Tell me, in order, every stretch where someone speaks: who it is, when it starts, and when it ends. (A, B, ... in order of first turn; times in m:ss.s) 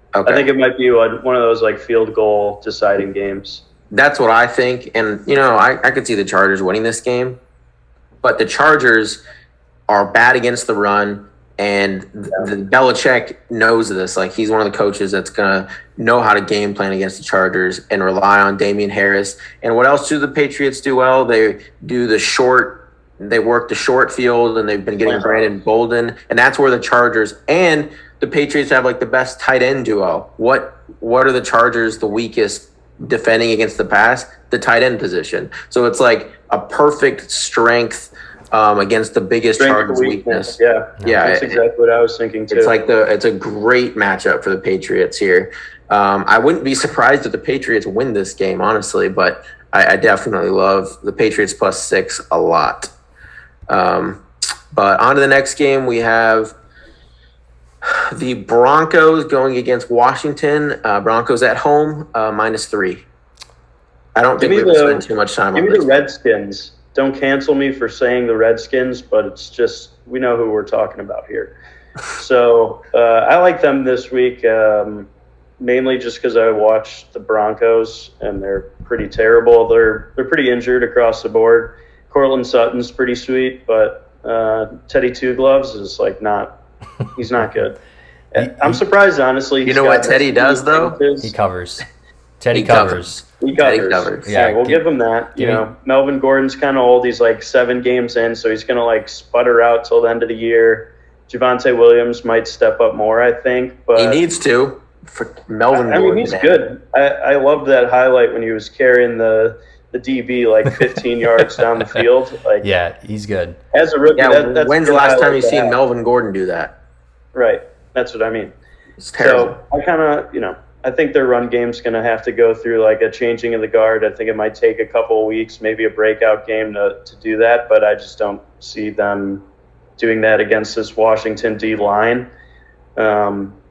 0:00.1-0:00.5 A
0:00.2-0:03.6 B
0:03.9-0:07.4 A
0:08.2-0:09.2 A
0:09.9-0:41.6 A
0:25.0-0:25.5 B
0:39.6-0:42.7 B
0:42.5-0:52.9 A
0:53.7-0:56.5 A
0:57.8-1:03.0 A
1:04.1-1:06.1 A
1:04.4-1:11.6 B
1:12.2-1:15.1 B
1:15.6-1:26.6 B
1:27.1-1:27.8 B
1:28.3-1:31.3 B
1:28.4-1:28.8 C
1:29.6-1:31.0 A
1:31.2-1:31.8 C
1:32.4-1:33.2 C
1:32.5-1:33.1 A
1:33.4-1:44.2 B
1:33.6-1:34.3 A
1:34.3-1:34.8 C
1:35.4-1:35.6 C
1:44.0-1:46.6 A
1:45.7-1:52.6 B
1:52.6-1:53.6 C
1:53.7-1:55.7 B
1:54.1-1:56.7 A
1:57.3-1:58.5 B
1:59.0-1:59.6 A
1:59.2-2:09.4 B
2:10.0-2:12.3 B
2:13.0-2:13.6 B